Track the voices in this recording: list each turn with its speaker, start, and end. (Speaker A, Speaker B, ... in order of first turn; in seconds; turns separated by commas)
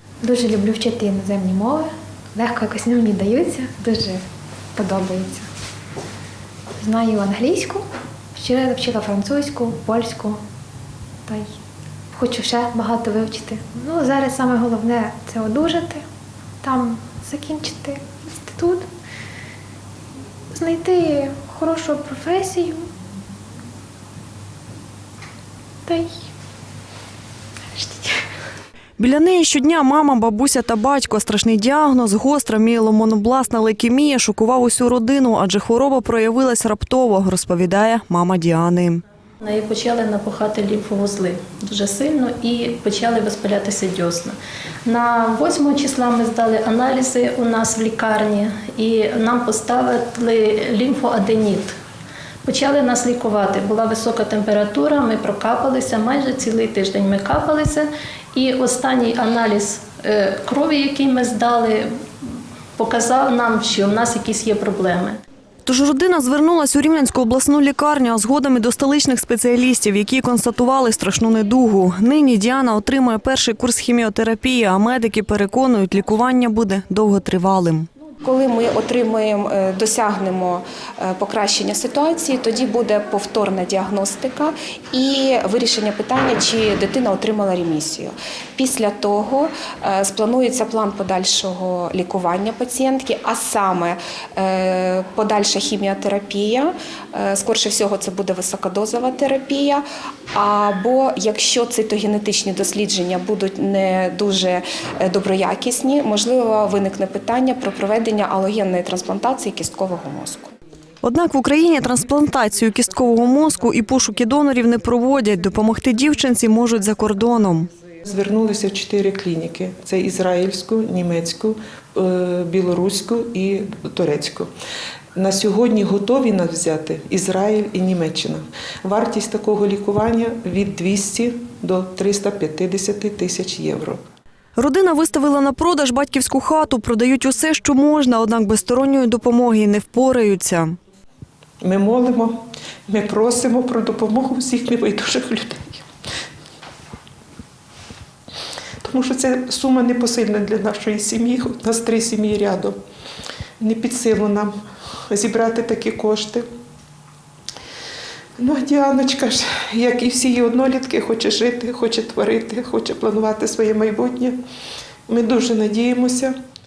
Speaker A: 0.3-1.8, Speaker A: 2.4-4.2, Speaker A: 4.8-5.4, Speaker A: 6.8-7.8, Speaker A: 8.3-10.4, Speaker A: 12.1-16.0, Speaker A: 16.6-18.8, Speaker A: 20.6-22.8, Speaker A: 27.8-28.1, Speaker B: 29.0-39.0, Speaker C: 39.4-51.8, Speaker C: 52.4-65.2, Speaker B: 65.7-77.9, Speaker D: 78.2-110.5, Speaker B: 111.0-117.7, Speaker E: 118.0-124.5, Speaker E: 125.2-134.0, Speaker B: 134.6-140.8, Speaker E: 141.6-145.8, Speaker E: 148.8-152.8, Speaker E: 153.6-154.5, Speaker E: 155.1-156.4, Speaker E: 158.4-164.4, Speaker E: 165.1-166.3